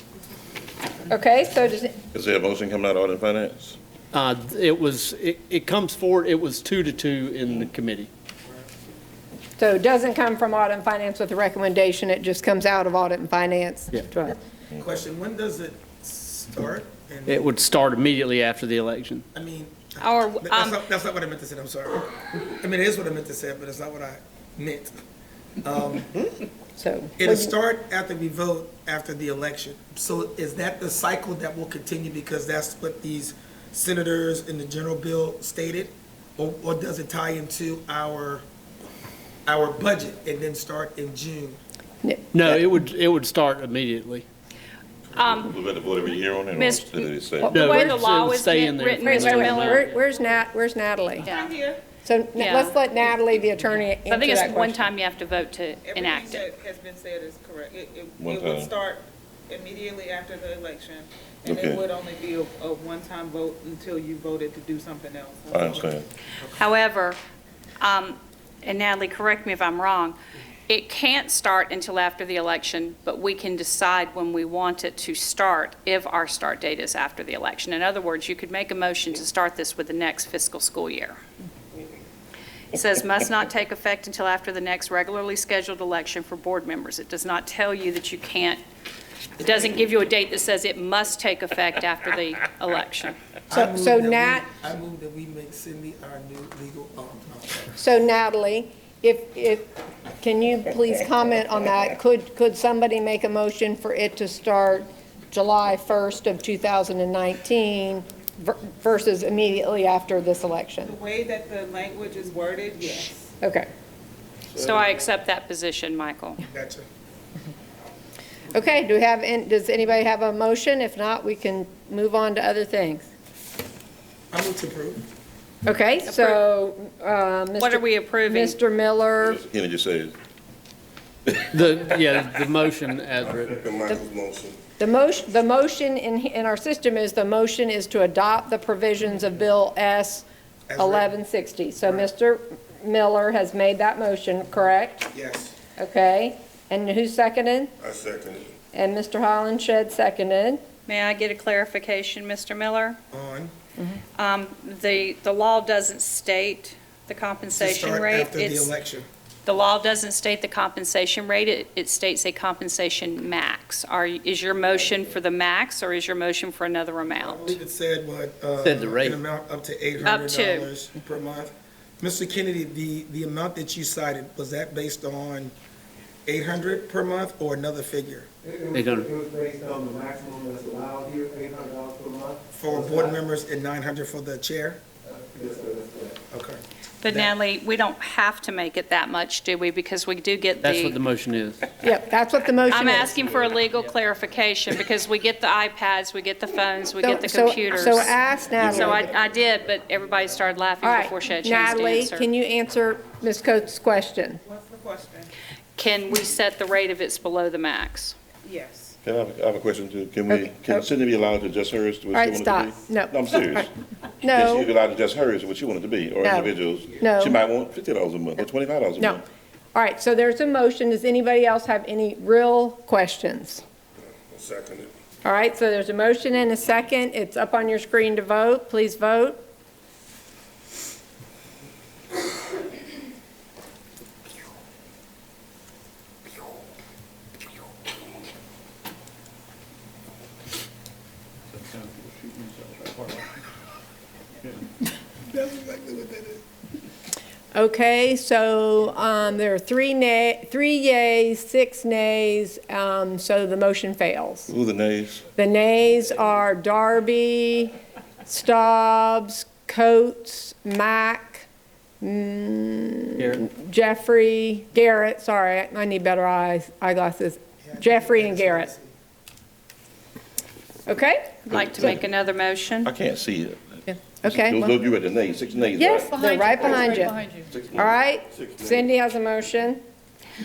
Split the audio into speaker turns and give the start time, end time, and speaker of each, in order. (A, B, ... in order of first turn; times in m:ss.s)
0:01.1-0:02.0 A
0:02.1-0:03.8 B
0:04.1-0:08.1 C
0:09.6-0:14.4 A
0:14.8-0:17.5 D
0:17.3-0:19.3 C
0:19.3-0:25.0 D
0:20.0-0:20.8 E
0:25.6-0:26.1 D
0:26.8-0:27.5 A
0:27.2-0:38.4 D
0:39.5-0:41.6 D
0:42.3-0:44.3 C
0:45.2-0:45.5 E
0:45.3-0:47.6 B
0:46.6-0:49.9 E
0:47.4-0:48.0 A
0:47.5-0:49.9 C
0:49.0-0:51.3 A
0:51.2-0:51.5 E
0:51.2-0:51.8 F
0:52.0-0:54.9 A
0:52.4-0:52.8 E
0:54.1-0:56.5 E
0:55.8-1:05.8 F
0:58.2-0:58.7 B
1:01.5-1:01.8 B
1:05.5-1:06.0 B
1:06.6-1:07.2 E
1:07.8-1:10.2 E
1:10.7-1:21.2 E
1:22.7-1:28.6 E
1:29.4-1:33.2 E
1:33.5-1:37.7 D
1:33.5-1:34.5 A
1:37.8-1:39.7 A
1:40.2-1:51.0 A
1:50.8-1:53.2 F
1:53.4-1:53.7 A
1:54.5-1:55.0 B
1:54.6-1:56.4 E
1:56.5-1:56.9 D
1:58.5-2:03.1 A
2:04.3-2:05.0 D
2:05.7-2:09.4 A
2:06.0-2:06.4 E
2:07.6-2:08.6 E
2:09.2-2:10.2 B
2:11.5-2:13.6 C
2:13.2-2:14.6 G
2:14.8-2:20.2 A
2:20.7-2:21.1 D
2:20.8-2:25.1 A
2:25.1-2:25.6 D
2:25.8-2:27.7 A
2:27.8-2:28.5 G
2:28.7-2:30.6 A
2:30.9-2:33.0 E
2:33.1-2:33.5 D
2:34.2-2:38.7 E
2:37.6-2:39.1 D
2:39.4-2:47.6 E
2:44.7-2:45.1 B
2:47.2-2:55.5 D
2:48.6-2:49.2 C
2:50.0-2:50.7 E
2:56.3-2:58.3 D
2:58.4-3:03.2 H
2:58.7-2:59.1 C
3:02.6-3:04.8 D
3:05.1-3:06.2 H
3:06.3-3:07.3 D
3:07.0-3:11.0 E
3:10.6-3:11.7 C
3:11.8-3:13.2 A
3:12.7-3:22.3 E
3:17.0-3:19.1 A
3:18.6-3:18.9 B
3:20.8-3:24.4 A
3:24.4-3:25.3 F
3:25.8-3:28.2 E
3:28.4-3:29.0 F
3:29.0-3:33.7 B
3:30.3-3:30.9 A
3:32.1-3:33.7 A
3:34.2-3:34.7 A
3:34.3-3:39.2 B
3:36.2-3:37.4 A
3:39.0-3:39.2 A
3:39.8-3:43.6 A
3:44.3-3:44.9 G
3:45.2-3:49.4 A
4:01.7-4:03.2 C
4:05.3-4:06.4 D
4:07.6-4:14.5 A
4:14.5-4:15.2 B
4:15.4-4:17.8 A
4:18.3-4:21.5 A
4:22.0-4:28.7 A
4:23.2-4:23.4 C
4:27.6-4:28.9 D
4:30.9-4:31.7 A
4:31.5-4:32.9 E
4:32.8-4:38.8 B
4:33.9-4:34.8 A
4:35.8-4:37.2 A
4:36.2-4:37.4 E
4:37.8-4:39.8 A